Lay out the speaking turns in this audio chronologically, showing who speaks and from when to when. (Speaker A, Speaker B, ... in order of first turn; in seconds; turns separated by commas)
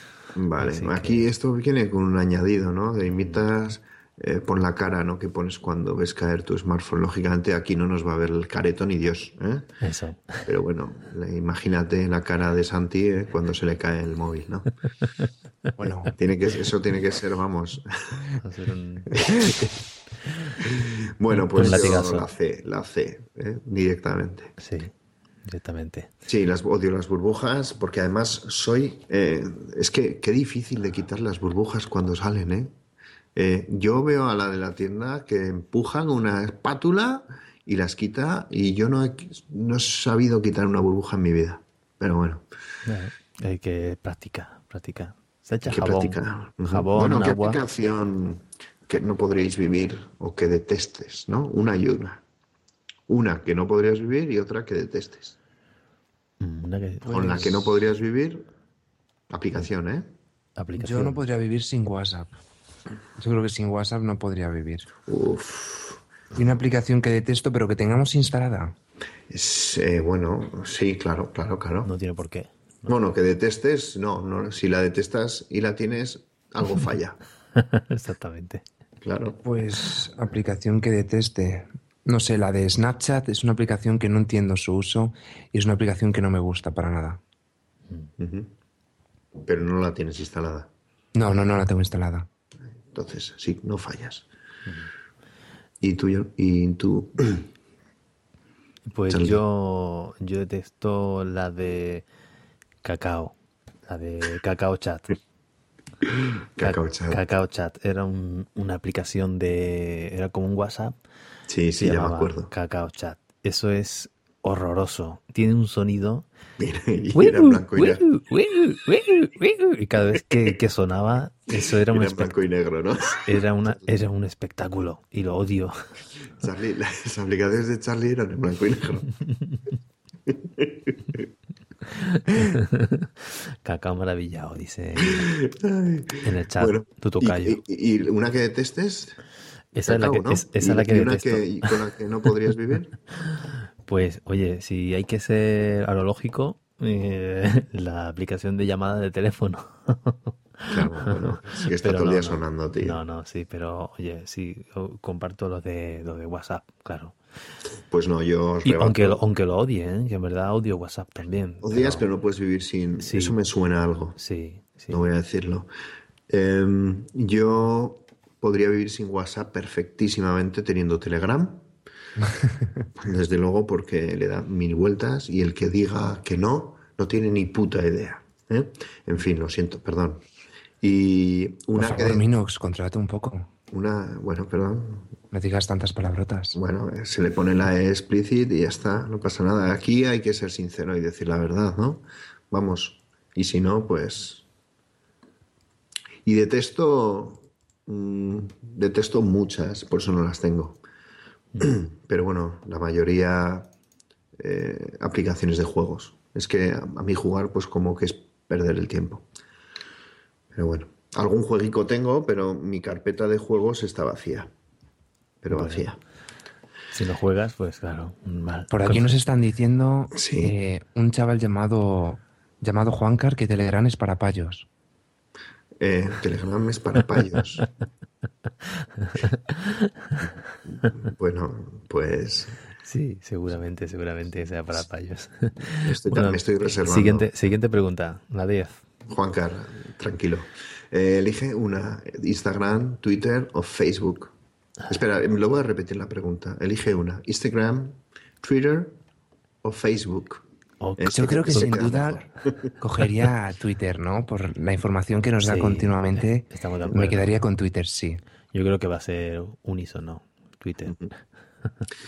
Speaker A: 0.3-9.7, Speaker B: 0.6-1.2, Speaker B: 9.8-10.4, Speaker A: 10.4-14.7, Speaker C: 15.8-16.1, Speaker A: 16.2-18.2, Speaker B: 18.4-19.2, Speaker A: 19.1-19.7, Speaker A: 20.6-24.5, Speaker B: 21.5-22.3, Speaker B: 24.6-24.9, Speaker B: 25.4-26.1, Speaker A: 26.3-32.7, Speaker A: 33.3-42.4, Speaker B: 42.9-47.6, Speaker A: 45.6-52.2, Speaker A: 53.1-55.4, Speaker B: 56.4-57.6, Speaker C: 57.1-57.4, Speaker A: 57.1-58.5, Speaker A: 59.3-60.1, Speaker B: 60.6-61.2, Speaker C: 60.8-62.3, Speaker C: 63.2-64.9, Speaker A: 65.0-66.0, Speaker C: 66.3-68.7, Speaker A: 69.3-71.9, Speaker B: 71.8-72.9, Speaker A: 72.9-77.2, Speaker B: 77.5-78.6, Speaker A: 79.0-79.4, Speaker C: 79.4-87.2, Speaker A: 88.2-88.5, Speaker A: 89.4-90.7, Speaker C: 91.1-92.3, Speaker A: 92.9-94.3, Speaker A: 95.8-97.5, Speaker B: 98.9-102.0, Speaker A: 99.1-99.4, Speaker B: 102.8-103.3, Speaker B: 103.9-105.2, Speaker A: 106.0-107.2, Speaker B: 106.6-110.9, Speaker A: 111.5-112.5, Speaker B: 111.8-116.3, Speaker A: 116.6-118.0, Speaker B: 117.1-122.3, Speaker A: 121.5-123.4, Speaker B: 123.2-125.7, Speaker A: 126.4-129.1, Speaker A: 130.3-131.2, Speaker B: 132.0-135.3, Speaker A: 135.0-139.2, Speaker B: 136.2-137.6, Speaker B: 139.7-141.8, Speaker A: 139.7-142.9, Speaker B: 143.8-157.2, Speaker A: 150.7-153.0, Speaker A: 157.9-159.2, Speaker B: 158.6-162.0, Speaker A: 161.6-164.2, Speaker B: 163.0-163.4, Speaker B: 164.2-165.0, Speaker A: 164.9-165.7, Speaker A: 166.3-171.7, Speaker A: 173.0-180.2, Speaker A: 180.8-182.2, Speaker C: 181.8-183.5, Speaker A: 183.7-185.1, Speaker C: 185.3-186.6, Speaker A: 186.5-194.4, Speaker A: 196.2-200.8, Speaker A: 201.6-203.7, Speaker A: 204.4-209.2, Speaker A: 210.5-214.5, Speaker A: 215.4-216.0, Speaker B: 215.5-215.9, Speaker B: 216.9-219.1, Speaker C: 218.7-224.7, Speaker A: 220.1-220.6, Speaker A: 225.8-227.7, Speaker B: 229.0-230.2, Speaker A: 230.8-232.6, Speaker B: 232.8-238.8, Speaker A: 235.7-237.3, Speaker A: 239.1-244.3, Speaker A: 244.9-248.9, Speaker A: 249.6-250.4, Speaker B: 250.8-252.1, Speaker A: 251.0-252.7, Speaker C: 251.1-252.2, Speaker C: 252.8-258.2, Speaker B: 255.4-257.3, Speaker B: 258.5-261.1